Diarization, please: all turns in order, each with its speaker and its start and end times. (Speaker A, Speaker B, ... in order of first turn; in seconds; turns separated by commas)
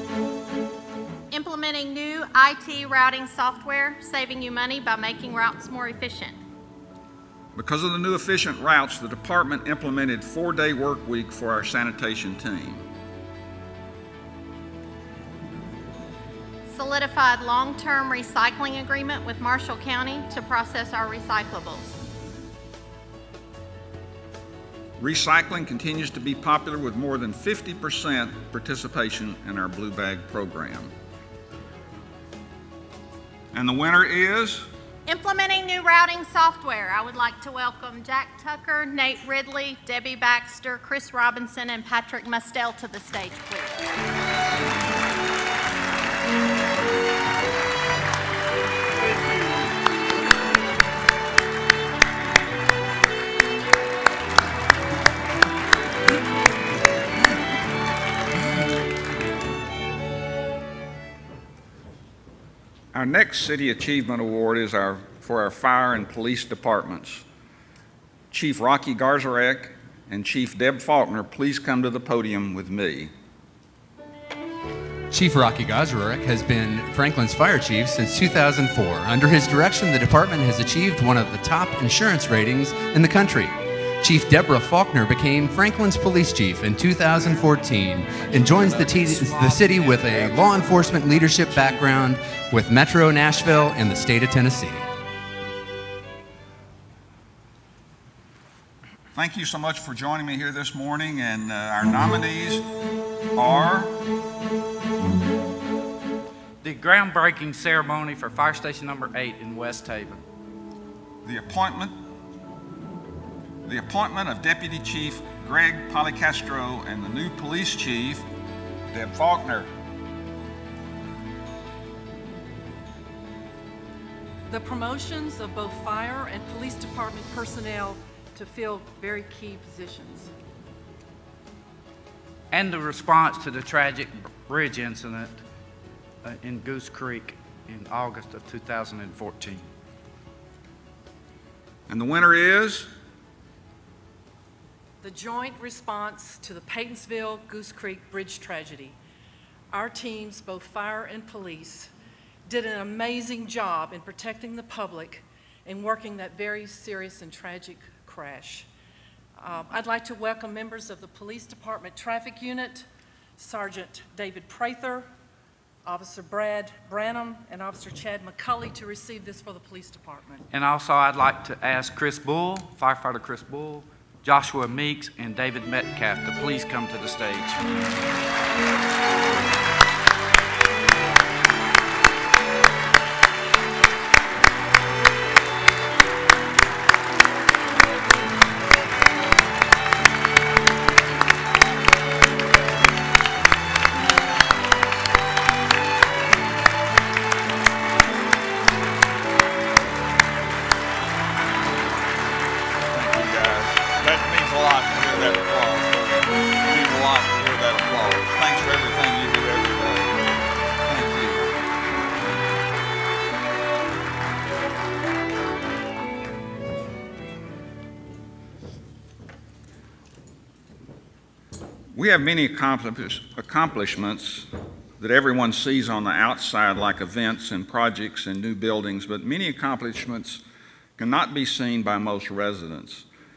Speaker A: 1.3-6.4, Speaker B: 7.5-12.9, Speaker A: 16.7-21.9, Speaker B: 25.0-30.9, Speaker B: 33.5-34.7, Speaker A: 35.1-43.8, Speaker B: 62.9-67.3, Speaker B: 68.3-73.1, Speaker C: 75.1-94.9, Speaker D: 88.3-91.9, Speaker B: 99.2-102.7, Speaker B: 103.3-104.0, Speaker D: 106.6-110.2, Speaker B: 111.2-111.9, Speaker B: 113.7-118.3, Speaker B: 118.9-119.7, Speaker E: 124.5-130.3, Speaker D: 132.5-135.4, Speaker D: 136.2-139.7, Speaker B: 141.9-142.9, Speaker E: 145.0-149.0, Speaker E: 149.7-151.9, Speaker E: 152.5-158.7, Speaker E: 159.4-162.9, Speaker E: 163.4-165.1, Speaker E: 165.8-170.4, Speaker D: 170.5-177.7, Speaker B: 202.9-210.2, Speaker B: 210.9-211.4, Speaker B: 221.9-230.4, Speaker B: 231.0-233.1